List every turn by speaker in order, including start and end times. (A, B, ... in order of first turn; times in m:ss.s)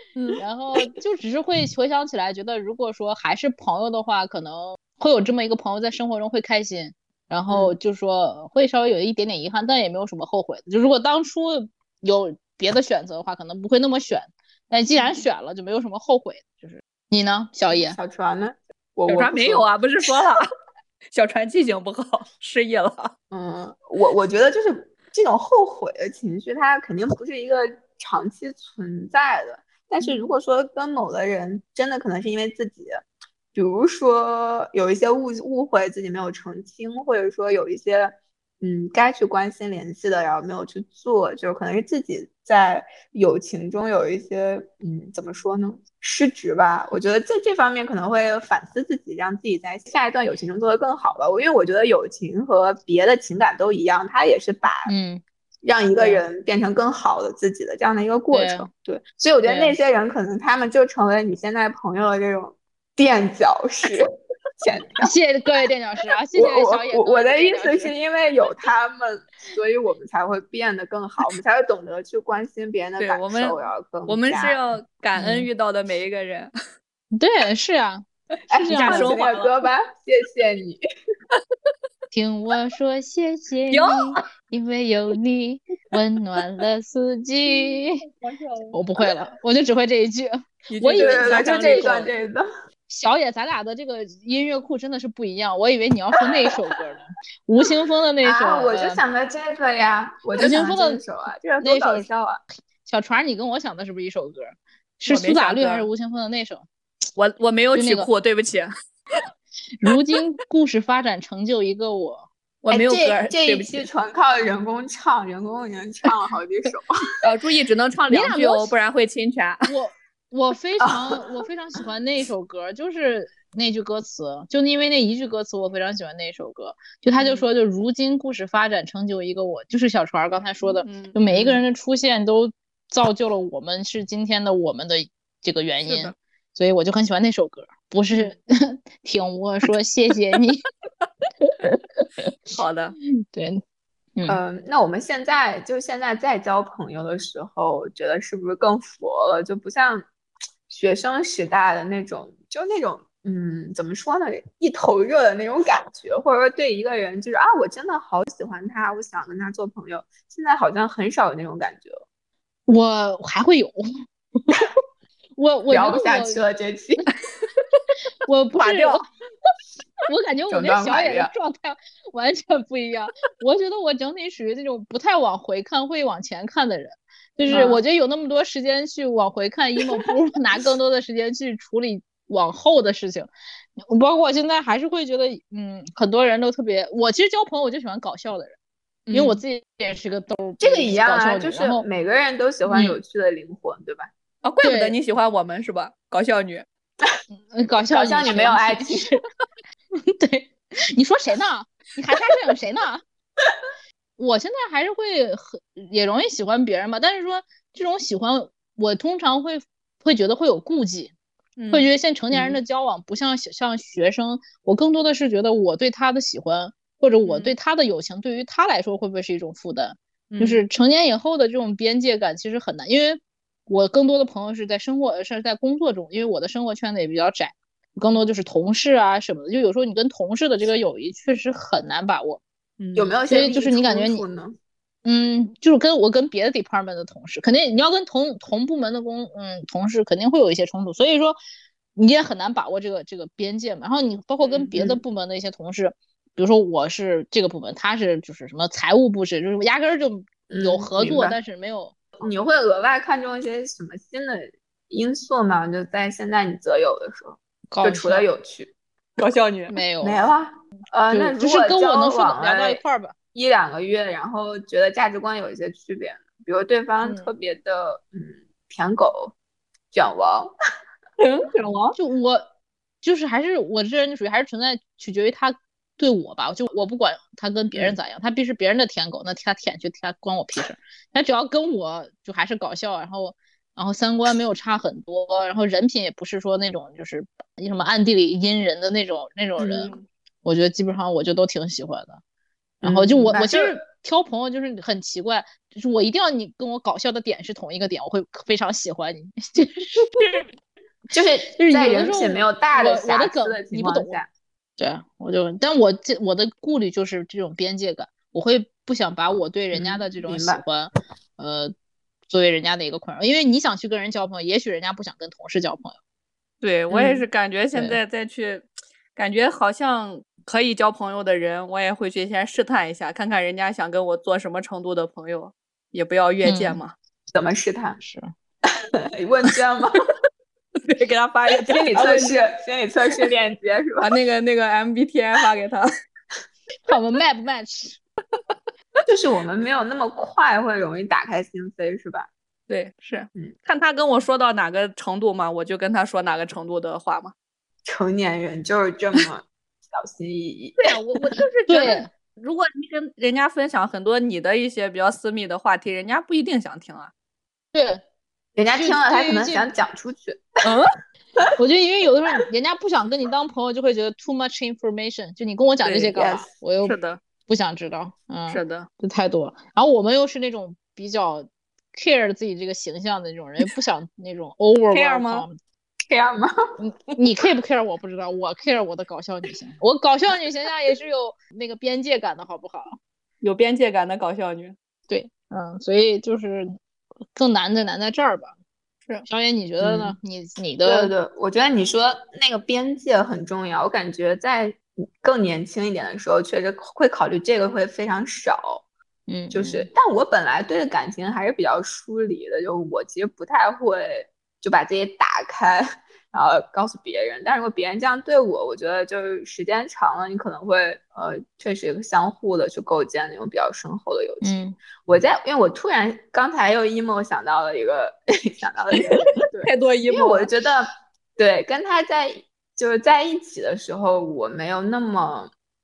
0:00.2-0:00.4 A
0:00.4-0:18.0 B
0:17.7-0:19.7 C
0:19.1-0:20.4 A
0:21.1-0:23.1 A
0:23.3-0:54.9 C
0:30.0-0:30.3 A
0:54.8-0:55.2 B
0:55.6-1:04.1 C
0:56.0-0:56.2 B
0:58.3-0:58.7 B
0:59.4-0:59.8 B
1:04.6-1:05.1 C
1:05.0-1:07.9 B
1:06.3-1:14.6 C
1:13.0-1:13.6 A
1:14.1-1:16.5 A
1:15.1-1:15.5 B
1:17.1-1:18.0 B
1:18.5-1:20.8 C
1:18.6-1:19.5 A
1:18.6-1:19.2 B
1:22.1-1:28.0 B
1:23.7-1:24.2 A
1:27.5-1:28.7 A
1:28.7-1:31.9 B
1:30.7-1:32.1 A
1:31.0-1:32.4 C
1:32.9-1:39.0 B
1:38.2-1:42.4 C
1:40.4-1:41.0 B
1:41.6-1:42.1 B
1:42.8-1:46.7 B
1:45.0-1:45.9 A
1:47.2-1:48.7 A
1:47.7-1:48.1 B
1:49.8-1:52.3 B
1:52.6-1:53.8 A
1:52.7-1:56.9 C
1:57.2-1:59.6 A
1:58.1-1:58.7 B
1:59.7-2:20.6 B
2:00.8-2:01.2 C
2:10.8-2:11.6 A
2:15.9-2:16.1 A
2:21.4-2:22.3 B
2:22.5-2:22.9 A
2:23.0-2:23.6 B
2:24.3-2:30.0 C
2:30.7-2:42.0 C
2:42.7-2:43.8 B
2:45.4-2:46.4 B
2:45.7-2:47.0 C
2:48.2-2:49.0 B
2:48.6-2:49.0 A
2:50.1-3:08.6 B
2:50.5-2:51.3 C
2:57.4-2:57.7 A
2:57.5-2:57.8 C
3:09.1-3:09.4 A
3:09.1-3:11.8 B
3:10.6-3:14.1 C
3:12.7-3:12.9 B
3:14.4-3:16.6 A
3:14.6-3:15.0 B
3:17.3-3:19.2 B
3:17.9-3:19.1 C
3:20.0-3:23.0 B
3:24.2-3:31.1 B
3:31.6-3:31.9 A
3:31.7-3:52.4 B
3:37.2-3:37.5 A
3:40.3-3:40.6 A
3:52.8-3:53.1 A
3:52.9-3:54.6 C
3:53.3-3:54.2 B
3:55.0-4:01.4 B
4:02.0-4:11.9 B
4:04.7-4:05.0 C
4:10.5-4:11.4 C
4:12.2-4:18.7 C
4:17.7-4:18.3 B
4:19.2-4:19.8 A
4:19.7-4:20.2 B
4:20.0-4:22.8 C
4:21.1-4:23.1 B
4:23.3-4:29.3 C
4:27.0-4:27.3 B
4:29.9-4:30.5 C
4:31.2-4:32.0 A
4:32.0-4:32.5 B
4:33.0-4:49.9 B
4:49.6-4:49.9 C
4:49.6-4:50.0 A
4:50.4-4:52.2 B
4:52.8-5:00.4 B
4:52.8-4:53.8 C
5:01.1-5:04.3 C
5:01.6-5:04.2 B
5:04.8-5:11.7 B
5:09.7-5:10.6 C
5:12.3-5:16.0 B
5:16.6-5:26.9 A
5:16.9-5:17.2 C
5:26.4-5:26.8 B
5:27.3-5:28.0 C
5:28.0-5:28.3 B
5:29.1-5:30.0 C
5:30.8-5:32.4 A
5:31.6-5:34.1 C
5:34.0-5:35.9 A
5:36.9-5:38.0 B
5:39.0-5:42.3 C
5:42.7-5:47.3 A
5:47.8-5:50.8 C
5:50.8-5:57.1 A
5:51.7-5:52.1 B
5:57.7-5:58.0 B
5:58.6-6:00.4 C
5:58.7-5:59.7 B
6:01.6-6:15.6 B
6:05.8-6:06.2 A
6:06.1-6:06.5 C
6:06.8-6:07.2 A
6:08.5-6:08.9 A
6:14.9-6:15.4 A
6:16.1-6:16.5 C
6:16.8-6:23.0 B
6:23.4-6:24.8 A
6:25.1-6:26.7 B
6:27.3-6:28.5 B
6:29.3-6:31.1 B
6:29.8-6:30.2 C
6:30.8-6:38.8 C
6:39.3-6:39.9 B
6:39.5-7:05.5 C
6:54.4-6:54.8 B
6:59.1-7:00.5 A